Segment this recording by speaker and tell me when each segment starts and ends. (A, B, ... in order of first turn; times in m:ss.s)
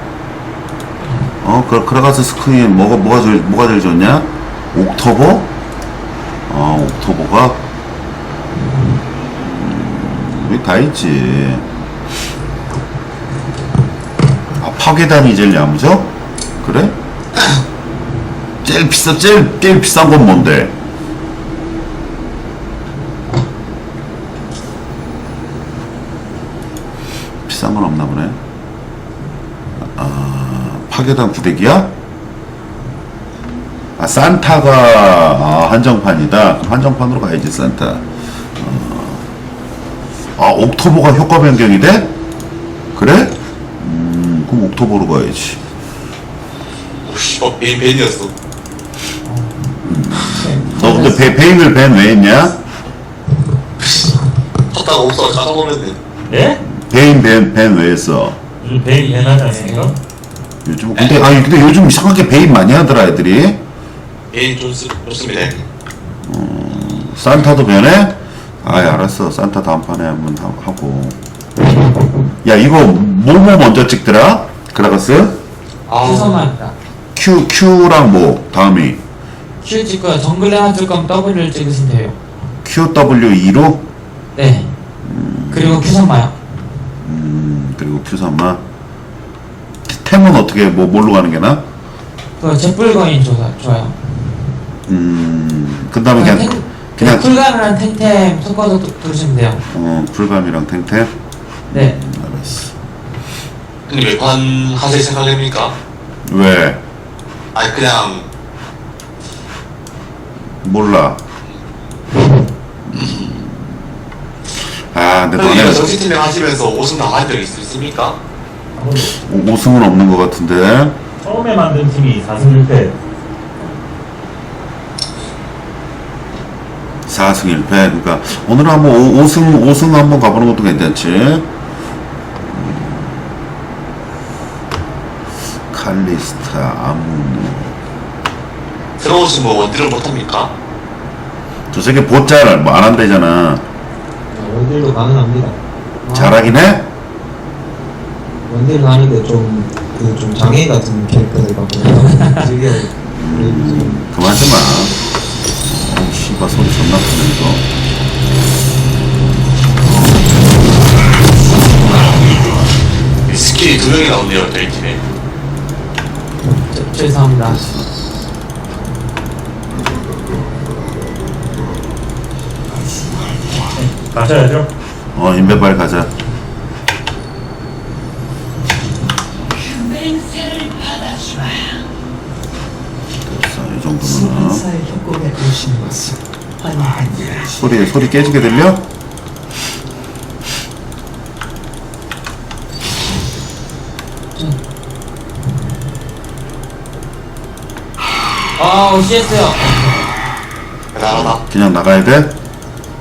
0:01.4-0:05.5 A
0:06.5-0:07.6 A
0:09.4-0:11.6 A
0:14.6-0:17.0 A
0:18.6-0:20.7 A
0:27.4-0:28.4 A
0:29.8-0:31.9 A
0:34.0-0:39.2 A
0:40.4-0:42.1 A
0:42.9-0:45.6 A
0:47.0-0:48.3 B
0:49.2-0:49.5 C
0:49.8-0:52.6 A
0:50.3-0:51.3 C
0:54.7-0:56.0 B
0:56.3-0:56.6 D
0:56.7-0:58.4 A
0:58.6-1:00.0 D
0:58.9-0:59.9 C
1:00.6-1:03.6 A
1:04.3-1:05.6 B
1:06.2-1:11.2 A
1:12.4-1:15.4 A
1:15.9-1:16.5 B
1:16.0-1:16.8 C
1:17.1-1:19.0 A
1:19.6-1:22.2 C
1:22.6-1:23.8 A
1:24.3-1:24.7 C
1:25.0-1:25.9 A
1:25.5-1:26.3 C
1:27.0-1:28.6 A
1:29.8-1:31.6 A
1:32.4-1:33.9 C
1:34.9-1:37.3 A
1:36.2-1:39.6 C
1:39.7-1:41.1 A
1:41.7-1:42.8 A
1:43.9-1:45.8 B
1:46.2-1:46.8 A
1:47.6-1:48.3 B
1:50.6-1:51.2 A
1:52.9-1:53.8 A
1:54.8-1:55.9 A
1:55.4-1:58.2 B
1:58.8-1:59.1 D
1:59.2-2:01.0 A
2:01.2-2:03.0 D
2:07.1-2:11.5 A
2:12.4-2:13.3 A
2:15.7-2:17.8 A
2:19.0-2:20.5 B
2:21.7-2:23.6 A
2:24.3-2:25.6 E
2:26.0-2:26.5 C
2:26.1-2:26.9 A
2:28.5-2:33.9 E
2:31.9-2:32.4 C
2:33.1-2:35.0 A
2:35.6-2:37.6 A
2:39.8-2:40.1 C
2:43.3-2:45.0 B
2:46.7-2:47.6 C
2:47.4-2:47.9 A
2:53.7-2:54.7 D
2:55.1-2:56.1 A
2:59.5-3:01.8 F
3:03.2-3:04.6 A
3:04.0-3:07.6 F
3:07.6-3:08.8 A
3:18.6-3:19.9 C
3:20.9-3:21.4 B
3:21.1-3:22.3 A